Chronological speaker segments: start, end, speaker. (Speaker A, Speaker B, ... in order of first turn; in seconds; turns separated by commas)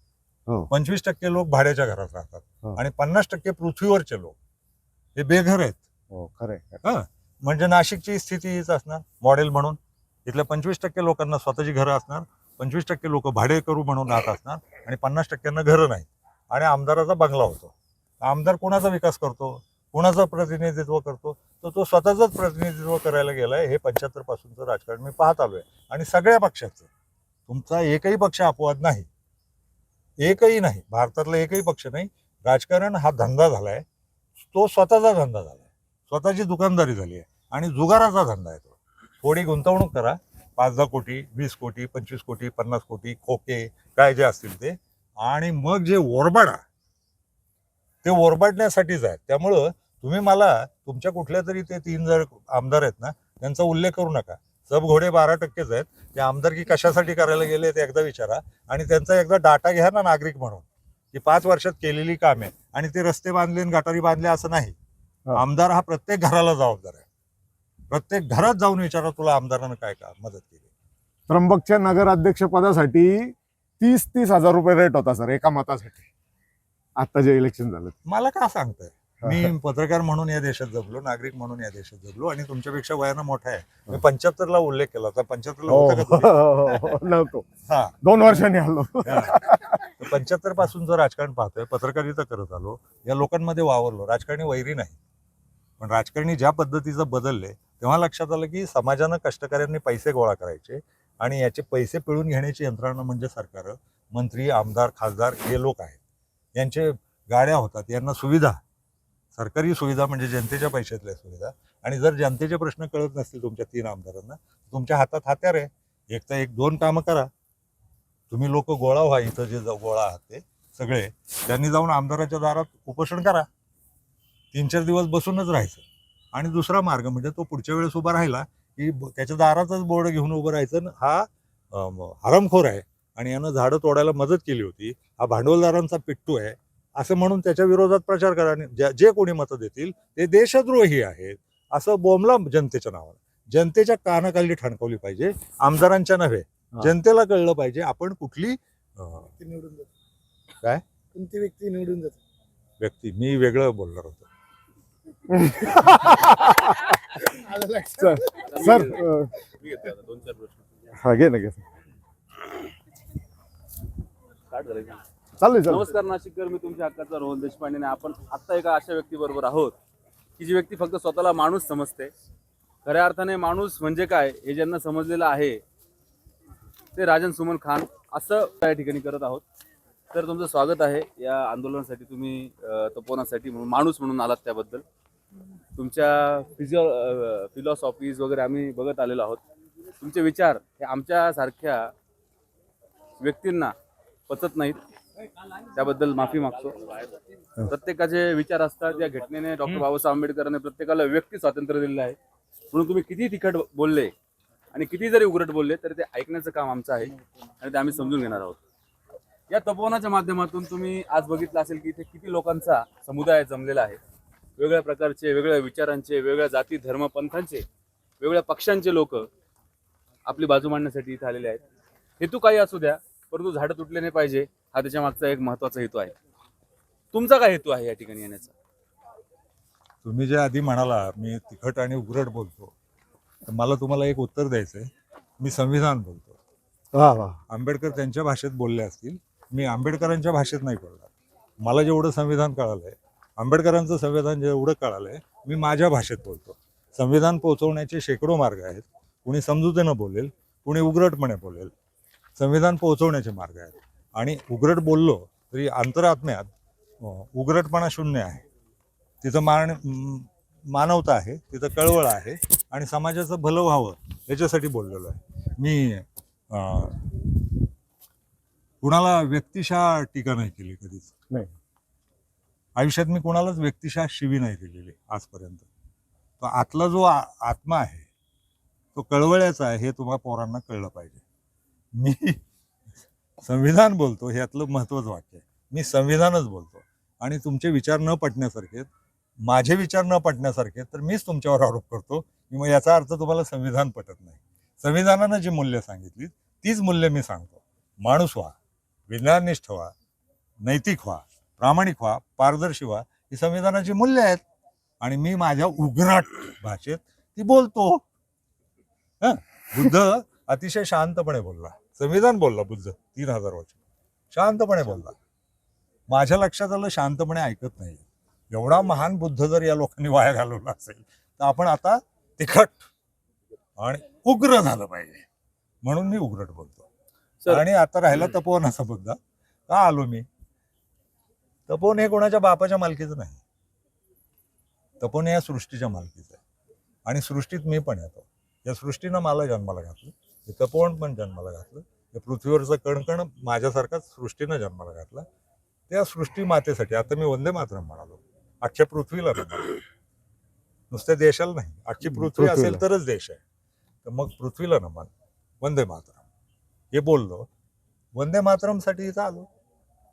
Speaker A: 0.7-4.4, Speaker A: 5.2-5.8, Speaker B: 6.1-6.8, Speaker A: 6.8-26.9, Speaker A: 27.5-29.1, Speaker A: 30.2-33.9, Speaker A: 34.4-46.6, Speaker A: 48.0-64.8, Speaker A: 65.3-67.1, Speaker A: 67.9-70.6, Speaker B: 71.3-76.1, Speaker B: 77.0-78.0, Speaker A: 78.1-87.0, Speaker B: 79.2-79.5, Speaker B: 85.7-87.5, Speaker A: 87.6-88.4, Speaker B: 88.0-89.8, Speaker A: 89.0-95.0, Speaker A: 95.8-106.0, Speaker A: 106.6-108.6, Speaker A: 109.3-117.3, Speaker A: 118.3-123.5, Speaker A: 124.5-149.3, Speaker C: 149.4-149.9, Speaker C: 151.1-152.2, Speaker A: 152.8-154.3, Speaker B: 155.3-156.9, Speaker C: 157.3-158.8, Speaker B: 158.0-159.3, Speaker D: 158.5-160.7, Speaker B: 161.0-161.6, Speaker D: 164.5-165.0, Speaker B: 165.4-165.9, Speaker D: 165.7-169.8, Speaker D: 170.4-172.1, Speaker D: 172.8-175.6, Speaker D: 176.9-179.4, Speaker D: 180.1-184.8, Speaker D: 185.8-189.4, Speaker D: 190.0-191.9, Speaker D: 193.2-193.7, Speaker D: 194.3-194.8, Speaker D: 195.7-197.1, Speaker D: 197.7-202.2, Speaker D: 202.7-204.1, Speaker D: 204.7-208.6, Speaker D: 209.5-214.0, Speaker D: 214.6-217.7, Speaker D: 218.2-219.3, Speaker D: 220.3-221.6, Speaker D: 222.2-226.2, Speaker D: 227.1-228.5, Speaker A: 230.0-232.7, Speaker A: 233.5-236.4, Speaker B: 236.9-237.4, Speaker A: 237.5-251.7, Speaker A: 252.4-256.5, Speaker A: 257.0-258.4, Speaker A: 259.2-267.0, Speaker A: 268.8-271.1, Speaker A: 272.8-275.7, Speaker A: 276.4-278.1, Speaker A: 278.9-281.2, Speaker A: 281.9-282.4, Speaker A: 283.4-288.9, Speaker A: 289.4-298.6, Speaker A: 299.1-299.9, Speaker A: 300.6-304.4, Speaker A: 305.0-308.0, Speaker A: 309.2-313.8, Speaker A: 314.3-315.2, Speaker A: 316.1-322.9, Speaker A: 323.8-325.3, Speaker A: 325.8-326.9, Speaker A: 327.5-330.3, Speaker A: 331.7-333.4, Speaker A: 335.0-336.4, Speaker A: 337.1-345.3, Speaker A: 345.9-349.8, Speaker A: 350.9-353.4, Speaker B: 352.1-352.8, Speaker A: 354.0-356.2, Speaker A: 356.9-357.5, Speaker A: 358.1-359.5